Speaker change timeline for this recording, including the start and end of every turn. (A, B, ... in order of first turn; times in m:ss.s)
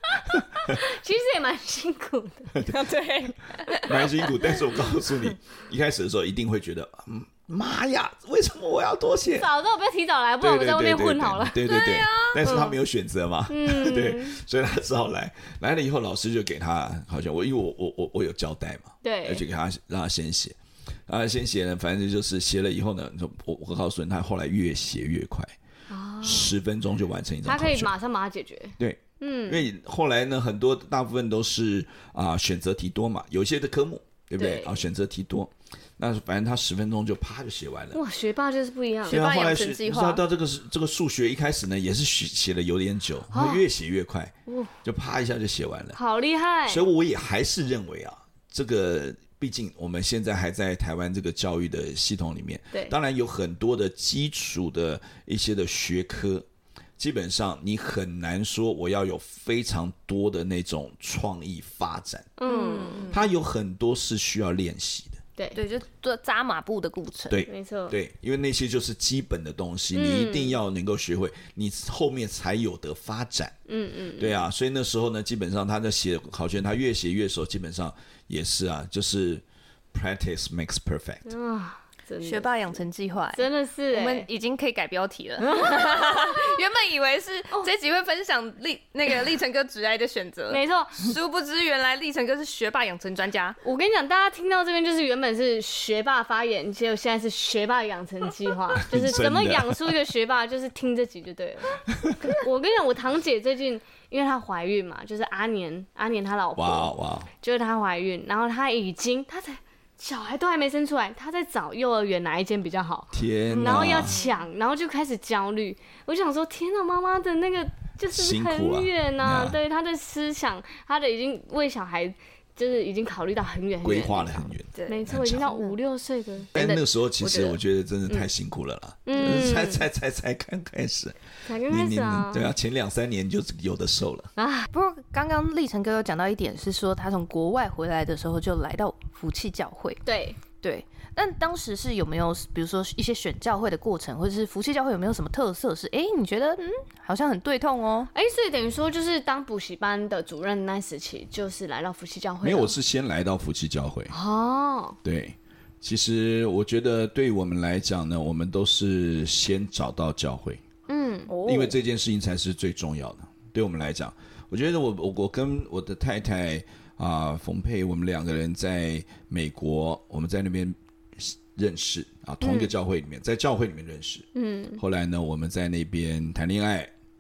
0:00.2-0:00.8 A
0:00.6-0:02.5 B
0:02.7-0:04.0 C
0:03.8-0:09.5 A
0:04.4-0:05.3 B
0:09.4-0:11.8 B
0:10.4-0:25.6 A
0:11.7-0:12.4 C
0:12.4-0:12.8 B
0:13.5-0:14.4 B
0:19.0-0:19.4 B
0:25.9-0:26.5 B
0:26.2-0:27.9 A
0:27.5-0:29.6 B
0:28.8-0:38.0 A
0:34.4-0:34.8 B
0:37.9-0:39.3 B
0:39.1-0:40.2 C
0:39.1-0:46.0 A
0:43.3-0:43.6 B
0:44.5-0:44.7 B
0:45.9-0:46.8 B
0:46.7-0:56.5 A
0:57.0-1:02.3 A
1:02.4-1:03.1 B
1:02.5-1:03.2 C
1:03.1-1:05.2 A
1:05.5-1:07.4 C
1:07.3-1:13.5 A
1:07.5-1:08.0 B
1:09.9-1:10.6 B
1:13.7-1:14.4 B
1:14.2-1:21.3 A
1:21.3-1:22.5 B
1:22.2-1:33.6 C
1:23.3-1:24.3 B
1:25.4-1:26.6 B
1:30.5-1:31.2 B
1:33.6-2:06.6 B
1:38.8-1:39.9 A
1:46.6-1:47.3 A
1:53.1-1:54.2 A
1:53.9-1:54.3 C
1:58.1-1:59.6 A
2:03.8-2:05.5 A
2:04.8-2:05.8 C
2:06.5-2:14.3 A
2:06.6-2:07.4 C
2:07.2-2:07.5 B
2:09.1-2:09.8 B
2:11.4-2:12.5 B
2:14.4-2:14.7 B
2:14.7-2:20.0 C
2:20.0-2:20.4 B
2:20.6-2:28.1 C
2:28.1-2:32.7 B
2:32.4-2:34.2 A
2:34.1-2:35.0 B
2:35.0-2:40.6 A
2:40.9-2:41.3 B
2:41.3-2:41.8 C
2:41.4-2:54.3 A
2:52.4-2:52.7 B
2:54.4-2:54.8 B
2:54.8-2:56.9 A